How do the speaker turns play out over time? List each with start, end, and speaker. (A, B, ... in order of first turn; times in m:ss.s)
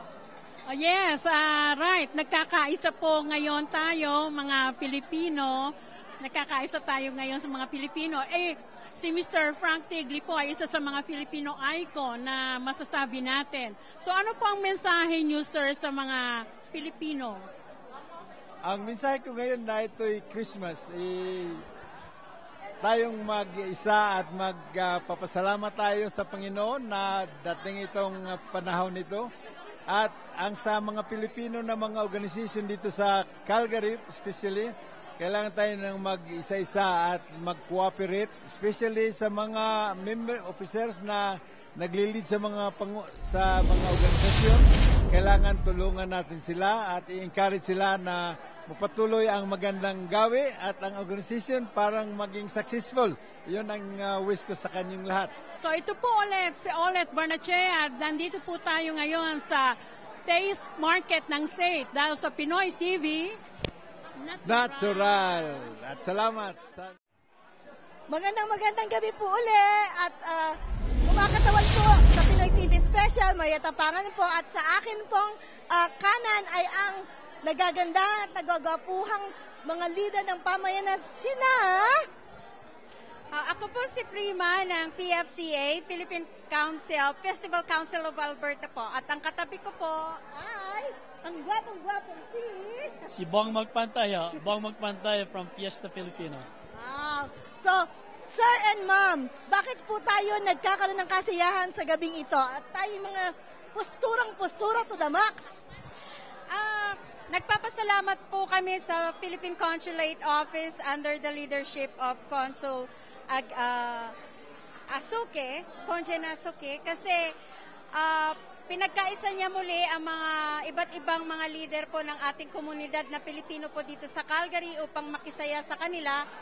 0:00.7-0:17.5 A
0:18.6-0:21.6 B
0:22.8-0:29.3 B
0:29.9-0:55.3 B
0:55.6-1:03.4 A
1:04.2-1:05.2 A
1:04.4-1:07.0 B
1:08.1-1:22.1 C
1:23.3-1:30.2 D
1:30.3-1:33.1 C
1:33.1-1:36.5 E
1:36.7-1:45.6 C
1:46.5-1:54.2 D
1:54.9-1:57.3 D
1:58.0-2:06.2 D